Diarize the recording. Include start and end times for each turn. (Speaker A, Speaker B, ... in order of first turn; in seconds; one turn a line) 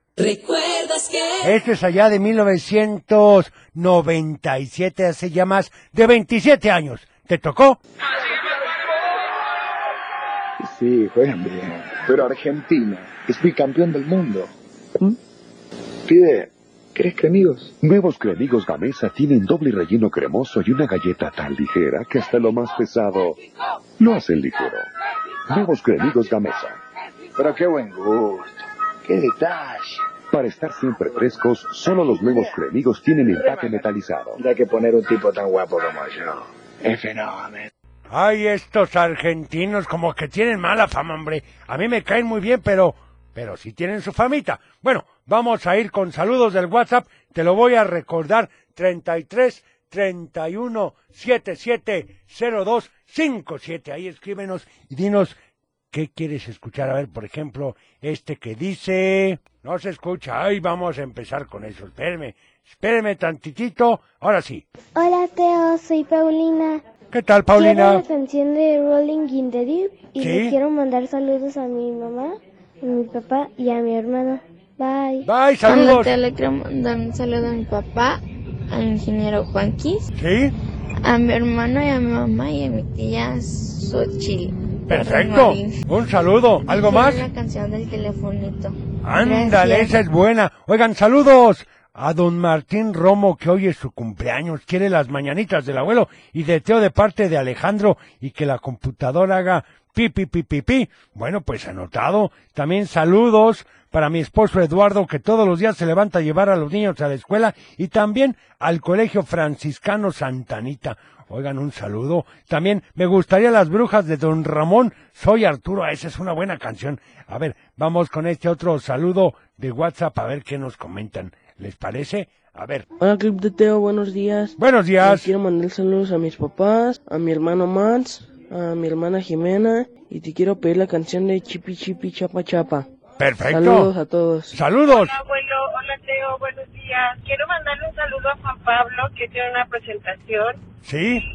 Speaker A: 1.4-7.8
Speaker B: 10.6-14.5
Speaker B: 16.1-17.7
Speaker C: 17.8-23.4
Speaker C: 24.0-24.9
Speaker C: 25.5-26.8
Speaker B: 27.4-30.0
Speaker C: 30.3-34.4
Speaker B: 34.4-37.7
Speaker A: 38.1-55.4
Speaker A: 55.9-64.6
Speaker D: 65.2-66.6
Speaker A: 67.1-68.0
Speaker D: 67.5-68.0
Speaker D: 69.5-71.1
Speaker A: 70.2-70.5
Speaker D: 73.5-73.9
Speaker A: 75.2-76.1
Speaker E: 75.6-80.1
Speaker A: 80.1-80.5
Speaker E: 81.0-85.7
Speaker A: 84.9-87.2
Speaker E: 86.7-89.9
Speaker A: 89.0-122.8
Speaker F: 123.0-132.9
Speaker A: 124.6-125.3
Speaker A: 133.2-133.9
Speaker F: 133.5-134.5
Speaker A: 134.5-135.1
Speaker G: 134.9-140.6
Speaker A: 140.8-141.2